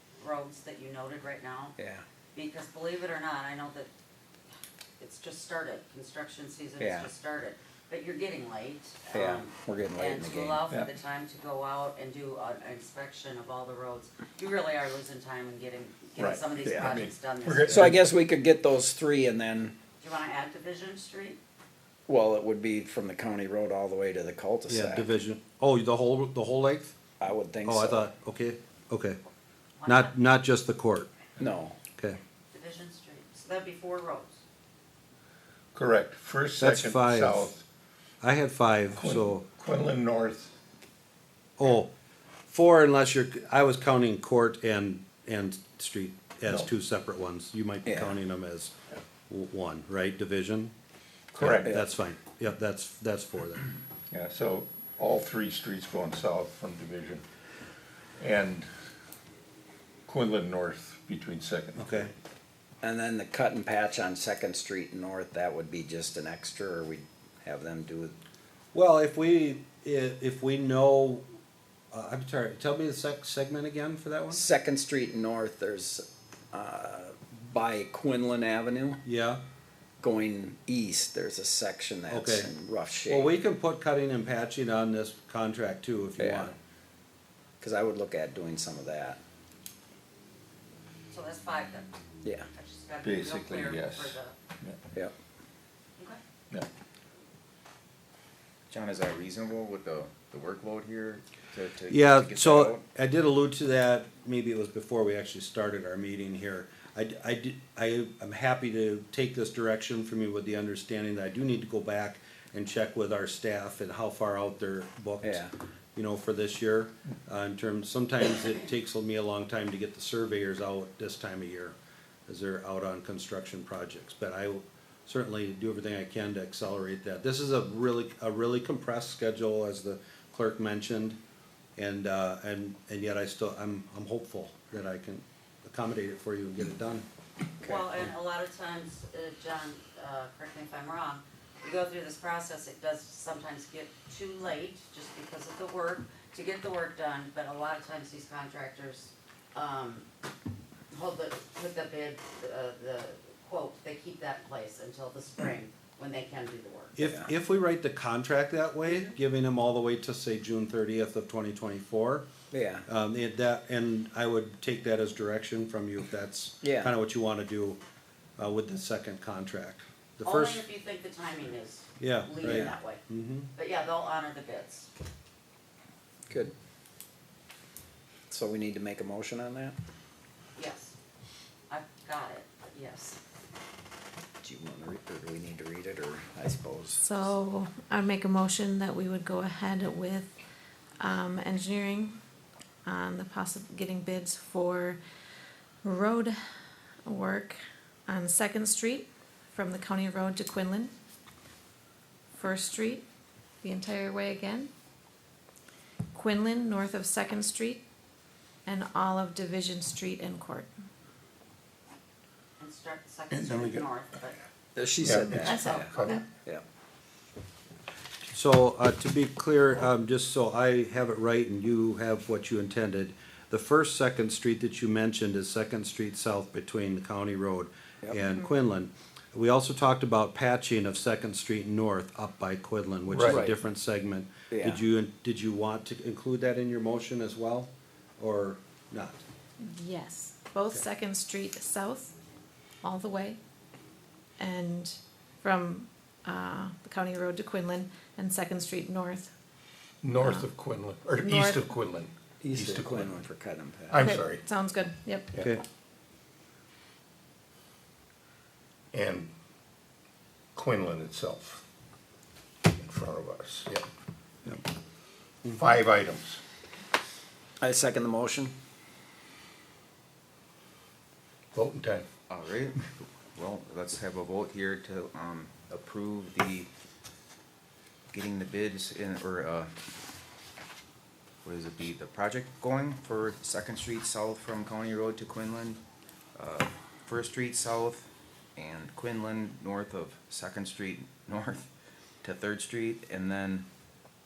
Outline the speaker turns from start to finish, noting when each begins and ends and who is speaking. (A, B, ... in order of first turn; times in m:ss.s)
0:00.2-0:01.8 A
0:01.8-0:02.0 B
0:02.3-0:03.9 A
0:05.0-0:18.0 A
0:06.8-0:07.1 B
0:09.1-0:10.6 B
0:16.2-0:18.0 C
0:16.6-0:16.9 B
0:17.7-0:19.7 B
0:20.0-0:21.4 A
0:22.1-0:25.1 B
0:24.7-0:27.0 D
0:27.2-0:28.0 B
0:27.6-0:29.2 D
0:29.8-0:30.2 A
0:29.9-0:31.1 D
0:31.4-0:31.8 B
0:32.5-0:34.4 A
0:35.7-0:37.6 C
0:36.6-0:37.5 D
0:38.2-0:39.5 D
0:38.9-0:40.5 C
0:41.6-0:41.9 D
0:42.5-0:48.7 D
0:47.9-0:48.2 B
0:49.3-0:50.7 D
0:51.4-0:51.7 C
0:51.4-0:53.7 D
0:54.1-0:57.2 C
0:58.2-0:58.7 C
1:00.0-1:02.1 C
1:01.8-1:02.1 D
1:02.8-1:08.2 B
1:08.7-1:11.2 D
1:11.9-1:14.4 D
1:14.3-1:19.0 B
1:19.0-1:19.4 D
1:20.0-1:23.3 B
1:22.1-1:22.5 D
1:23.1-1:26.6 D
1:26.2-1:26.5 B
1:27.6-1:29.2 B
1:31.1-1:31.9 A
1:32.5-1:34.3 A
1:33.0-1:34.8 C
1:38.7-1:42.8 E
1:41.9-1:55.4 D
1:55.2-1:55.5 B
1:55.9-2:01.8 D
2:02.3-2:11.2 D
2:11.8-2:17.0 D
2:17.6-2:30.1 A
2:30.9-2:37.0 A
2:37.0-2:42.2 D
2:37.0-2:37.3 B
2:42.5-2:42.9 B
2:42.9-2:47.8 D
2:46.6-2:46.9 B
2:48.4-2:50.6 D
2:50.2-2:53.0 A
2:52.0-2:53.5 D
2:53.5-2:54.9 A
2:58.3-2:59.8 B
3:00.6-3:00.9 A
3:01.7-3:03.2 A
3:04.4-3:07.3 B
3:07.0-3:10.3 F
3:11.0-3:12.2 F
3:12.8-3:15.0 F
3:15.8-3:16.3 F
3:17.0-3:20.9 F
3:22.3-3:23.0 F
3:23.6-3:24.7 F
3:26.1-3:27.8 F
3:28.6-3:30.7 F
3:32.6-3:34.4 A
3:33.3-3:33.9 C
3:34.8-3:36.6 B
3:35.0-3:36.2 C
3:35.5-3:36.2 F
3:38.3-3:59.2 D
3:53.1-3:53.3 C
3:53.3-3:53.6 B
3:54.5-3:54.8 B
3:59.6-4:02.1 F
4:02.8-4:03.4 F
4:04.4-4:09.3 F
4:10.0-4:13.3 C
4:10.2-4:10.5 F
4:11.1-4:11.7 F
4:12.4-4:14.0 B
4:13.9-4:14.4 C
4:14.0-4:15.3 F
4:18.9-4:19.3 C
4:20.6-4:21.6 C
4:22.7-4:23.8 C
4:25.5-4:26.4 C
4:27.6-4:28.5 B
4:31.5-4:32.1 C
4:32.3-4:36.7 E
4:38.1-4:39.7 E
4:41.4-4:45.8 E
4:46.3-4:51.7 E
4:52.2-4:53.6 E